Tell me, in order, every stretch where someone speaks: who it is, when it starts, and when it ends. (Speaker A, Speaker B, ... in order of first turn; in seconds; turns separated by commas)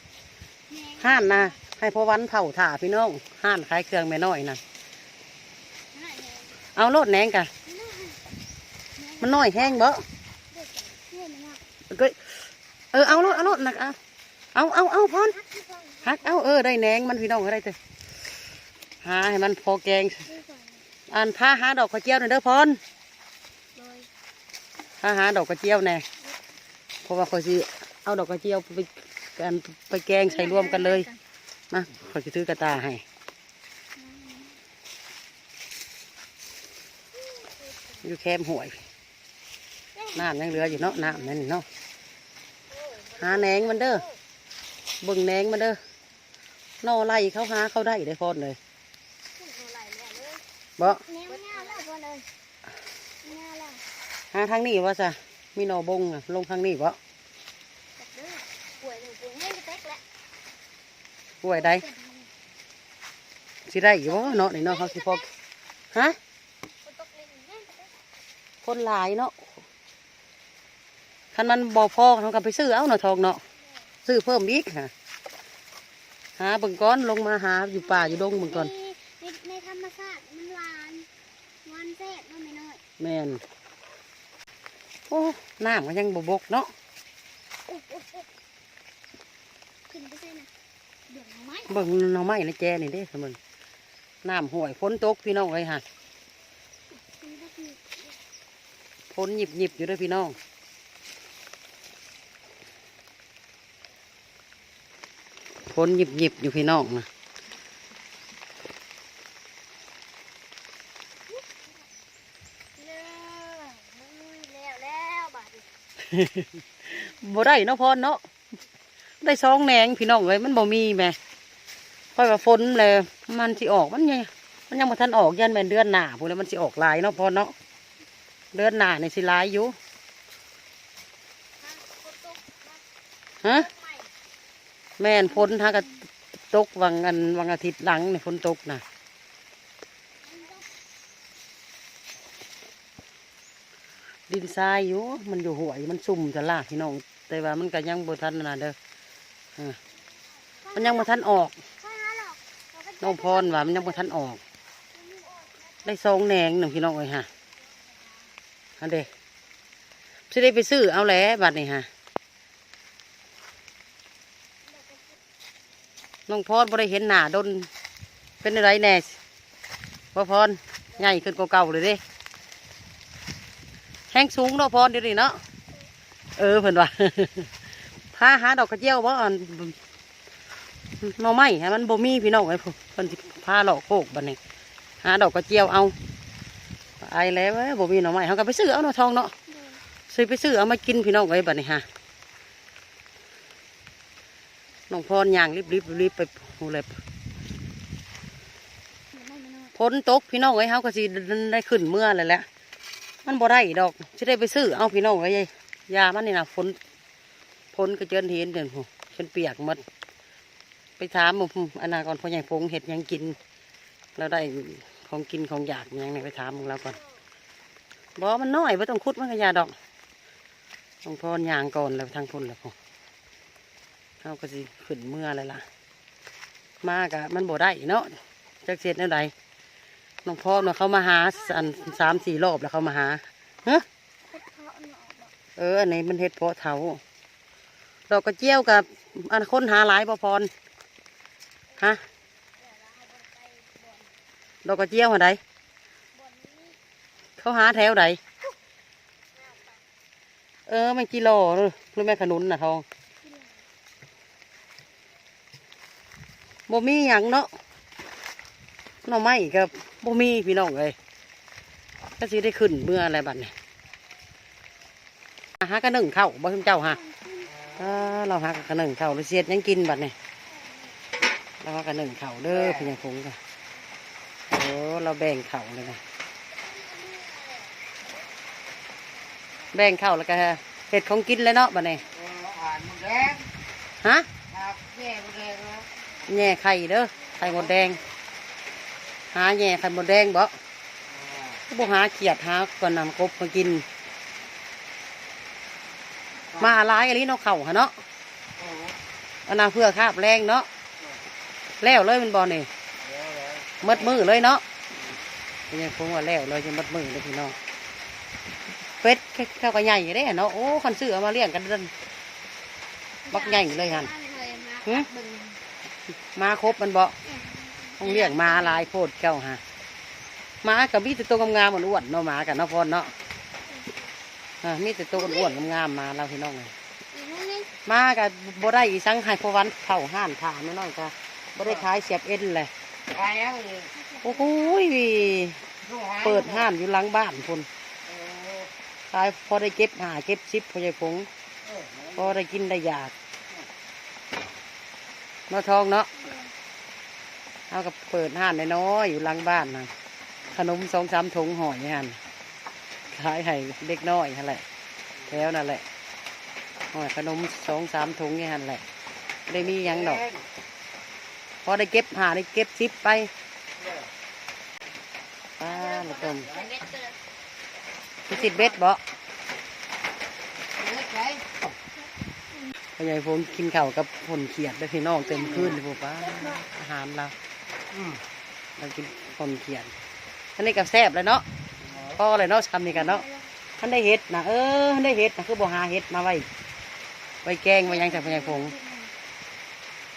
Speaker A: 0.7-1.5, Speaker B: 1.0-4.6, Speaker A: 5.9-6.6, Speaker B: 6.7-7.5, Speaker A: 7.6-8.2, Speaker A: 8.9-9.8, Speaker B: 9.2-10.1, Speaker A: 10.5-11.6, Speaker B: 11.9-12.4, Speaker B: 12.9-14.0, Speaker A: 13.1-13.6, Speaker B: 14.5-15.3, Speaker A: 15.0-16.4, Speaker B: 16.0-17.8, Speaker B: 19.0-20.3, Speaker A: 20.2-20.8, Speaker B: 21.1-22.8, Speaker A: 23.7-24.1, Speaker B: 25.0-26.0, Speaker B: 27.0-31.1, Speaker A: 30.2-31.2, Speaker B: 31.7-33.0, Speaker A: 34.0-34.6, Speaker A: 37.2-37.9, Speaker B: 38.0-38.8, Speaker A: 39.9-41.4, Speaker B: 40.1-41.6, Speaker A: 42.7-44.2, Speaker B: 43.2-44.0, Speaker B: 45.0-45.8, Speaker B: 46.8-48.6, Speaker A: 49.4-52.2, Speaker B: 50.8-51.0, Speaker A: 53.2-53.8, Speaker B: 54.3-57.0, Speaker A: 58.0-60.0, Speaker B: 61.4-61.8, Speaker A: 61.5-62.3, Speaker B: 63.7-65.2, Speaker A: 63.9-65.3, Speaker A: 66.8-67.9, Speaker B: 68.6-69.3, Speaker B: 71.3-73.4, Speaker B: 74.0-74.9, Speaker B: 76.4-78.7, Speaker A: 77.8-81.1, Speaker A: 81.6-82.8, Speaker B: 83.0-83.4, Speaker B: 85.1-86.7, Speaker A: 87.7-88.2, Speaker A: 89.9-90.5, Speaker A: 91.1-91.9, Speaker B: 91.7-93.4, Speaker B: 94.2-95.8, Speaker A: 97.1-98.0, Speaker B: 99.1-100.3, Speaker B: 105.7-107.1, Speaker A: 112.7-115.7, Speaker B: 116.0-118.2, Speaker B: 119.2-121.2, Speaker B: 122.2-127.5, Speaker B: 128.5-129.7, Speaker A: 131.6-132.8, Speaker B: 133.4-133.7, Speaker A: 133.6-134.1, Speaker B: 135.0-135.9, Speaker A: 135.2-136.0, Speaker B: 136.5-138.8, Speaker A: 140.2-140.7, Speaker B: 144.3-148.8, Speaker A: 150.6-151.1, Speaker B: 150.7-151.5, Speaker A: 151.8-154.0, Speaker B: 153.0-154.4, Speaker A: 154.9-155.9, Speaker B: 155.8-157.3, Speaker B: 158.8-159.1, Speaker B: 160.3-161.9, Speaker A: 164.7-165.1, Speaker B: 166.3-167.7, Speaker B: 168.4-169.2, Speaker B: 170.1-172.0, Speaker B: 174.1-175.4, Speaker B: 176.4-177.5, Speaker B: 178.1-179.8, Speaker B: 181.0-184.4, Speaker B: 185.0-185.9, Speaker B: 187.0-189.3, Speaker A: 189.5-189.8, Speaker B: 190.1-191.8, Speaker B: 194.9-197.0, Speaker A: 199.1-199.7, Speaker B: 199.7-202.4, Speaker B: 203.2-206.8, Speaker B: 207.7-209.8, Speaker B: 211.0-213.4, Speaker B: 214.2-217.0, Speaker B: 218.2-219.7, Speaker B: 221.0-222.7, Speaker B: 224.2-225.6, Speaker B: 226.8-229.3, Speaker B: 230.2-233.8, Speaker A: 231.5-231.9, Speaker A: 234.3-235.3, Speaker B: 235.6-237.0, Speaker B: 238.1-240.5, Speaker B: 241.7-242.0, Speaker A: 242.6-244.1, Speaker B: 244.6-245.4, Speaker A: 246.1-246.8, Speaker B: 247.4-248.2, Speaker B: 250.7-252.8, Speaker A: 253.2-253.6, Speaker B: 256.7-257.5, Speaker B: 259.0-260.9, Speaker B: 262.2-263.5, Speaker B: 265.6-267.0, Speaker A: 266.9-267.6, Speaker B: 267.7-270.1, Speaker B: 271.6-273.4, Speaker B: 274.5-276.0, Speaker A: 276.7-277.7, Speaker B: 279.7-282.1, Speaker C: 282.2-283.4, Speaker B: 284.0-284.3, Speaker C: 284.5-285.8, Speaker B: 286.2-288.0, Speaker B: 289.3-290.6, Speaker B: 291.7-293.9, Speaker B: 296.5-298.0, Speaker B: 299.4-300.7, Speaker B: 301.8-302.7, Speaker B: 303.8-304.6, Speaker B: 305.7-307.6, Speaker B: 309.0-311.9, Speaker B: 313.3-314.1, Speaker A: 313.3-315.6, Speaker B: 316.3-317.1, Speaker A: 317.2-318.9, Speaker B: 318.0-319.6, Speaker B: 320.6-323.1, Speaker A: 323.7-324.0, Speaker B: 324.6-326.7, Speaker A: 327.1-327.7, Speaker B: 327.9-332.7, Speaker C: 333.1-333.9, Speaker A: 333.9-334.9, Speaker B: 334.2-335.6, Speaker B: 336.1-337.7, Speaker B: 339.1-341.3, Speaker B: 342.1-343.1, Speaker B: 345.5-346.2, Speaker A: 346.1-346.5, Speaker B: 347.7-349.9, Speaker B: 350.5-352.2, Speaker B: 353.1-354.6, Speaker B: 355.2-355.8, Speaker B: 356.9-358.8, Speaker B: 359.5-360.3, Speaker B: 361.6-363.3, Speaker B: 365.6-366.6, Speaker A: 366.4-367.1, Speaker B: 368.3-369.0, Speaker C: 370.8-371.4, Speaker B: 372.9-377.3, Speaker A: 375.3-375.7, Speaker B: 378.8-379.9, Speaker B: 380.6-381.4, Speaker B: 382.0-383.2, Speaker A: 383.0-383.5, Speaker B: 383.8-386.5, Speaker B: 387.4-388.7, Speaker A: 387.8-389.1